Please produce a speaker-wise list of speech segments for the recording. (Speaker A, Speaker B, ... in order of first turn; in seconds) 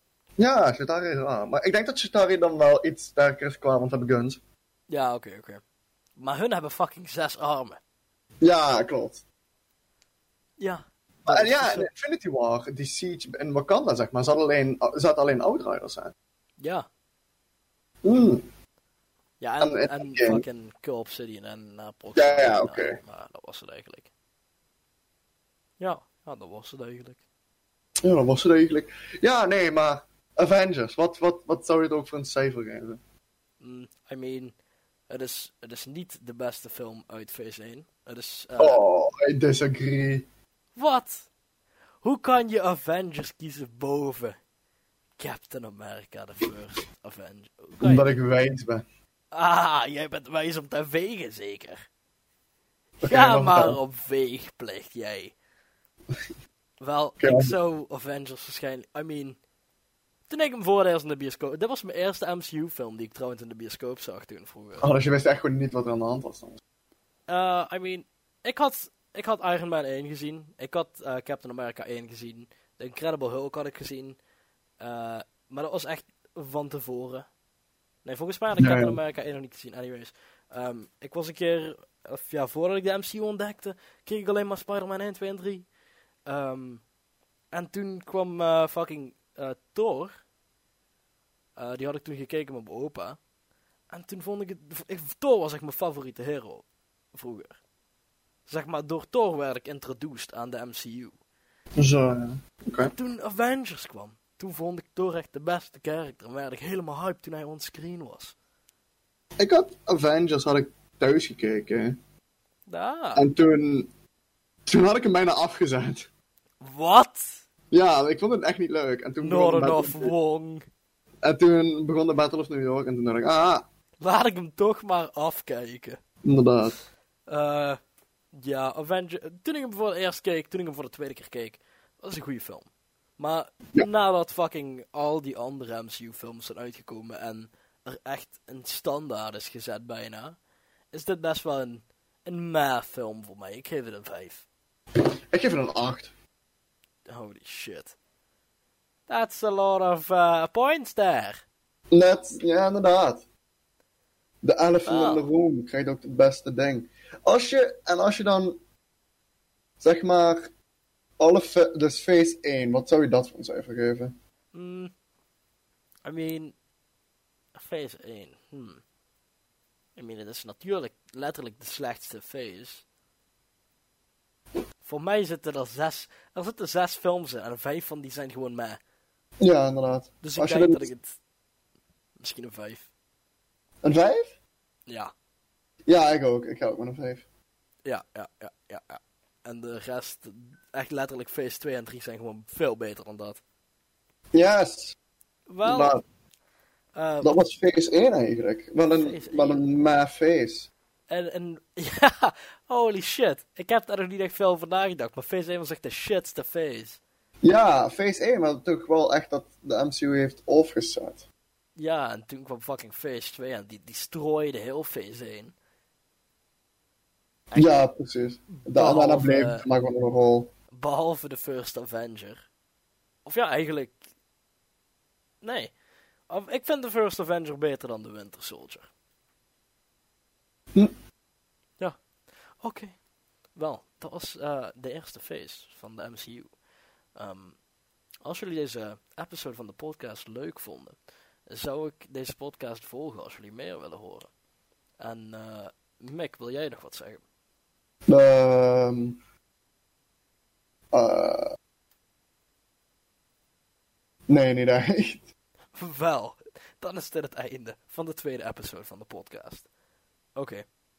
Speaker A: 0.4-4.4, 8.4-9.2, 11.2-16.1, 18.0-18.4, 19.6-20.4, 22.2-23.0, 28.0-33.0, 38.6-40.3, 47.8-48.8, 53.0-53.8, 57.2-57.5, 64.8-66.6, 78.6-79.0, 101.8-102.9, 109.4-112.0, 113.2-113.9, 114.7-116.1, 117.7-120.1, 121.2-123.7, 126.2-126.8, 145.0-146.1, 151.9-153.2, 154.4-158.6, 159.8-160.5, 161.2-164.1, 179.4-180.9, 183.8-184.3, 185.9-187.2, 194.3-195.0, 195.7-196.0, 197.2-200.7, 207.4-211.3, 217.6-220.5, 248.1-249.2, 250.9-251.5, 254.3-255.3
Speaker B: 4.9-5.6, 6.2-7.8, 10.6-11.9, 16.6-16.9, 19.4-24.1, 25.8-27.2, 33.6-34.5, 35.1-38.8, 40.8-41.3, 42.0-44.4, 45.2-48.1, 49.3-51.8, 53.1-55.3, 56.8-59.4, 60.3-64.9, 67.3-74.2, 74.8-77.3, 78.0-85.7, 86.3-86.8, 87.5-90.1, 91.6-93.2, 93.9-97.6, 98.5-101.2, 102.9-108.3, 112.7-113.3, 116.6-117.4, 119.2-120.6, 124.0-126.0, 127.3-127.8, 128.3-140.4, 140.9-144.4, 147.1-147.9, 149.1-151.4, 154.9-155.2, 164.5-164.9, 166.1-166.6, 167.6-168.8, 170.0-172.8, 174.8-178.8, 180.2-181.2, 182.2-182.9, 187.8-193.4, 195.5-196.0, 196.9-197.4, 198.9-199.6, 201.1-207.0, 211.8-215.5, 217.5-217.9, 218.5-219.6, 220.7-222.4, 223.3-224.0, 225.4-225.7, 226.3-228.9, 232.6-233.0, 233.6-236.5, 237.2-237.6, 238.2-241.0, 241.5-244.3, 245.0-247.2, 255.8-259.7, 260.4-260.6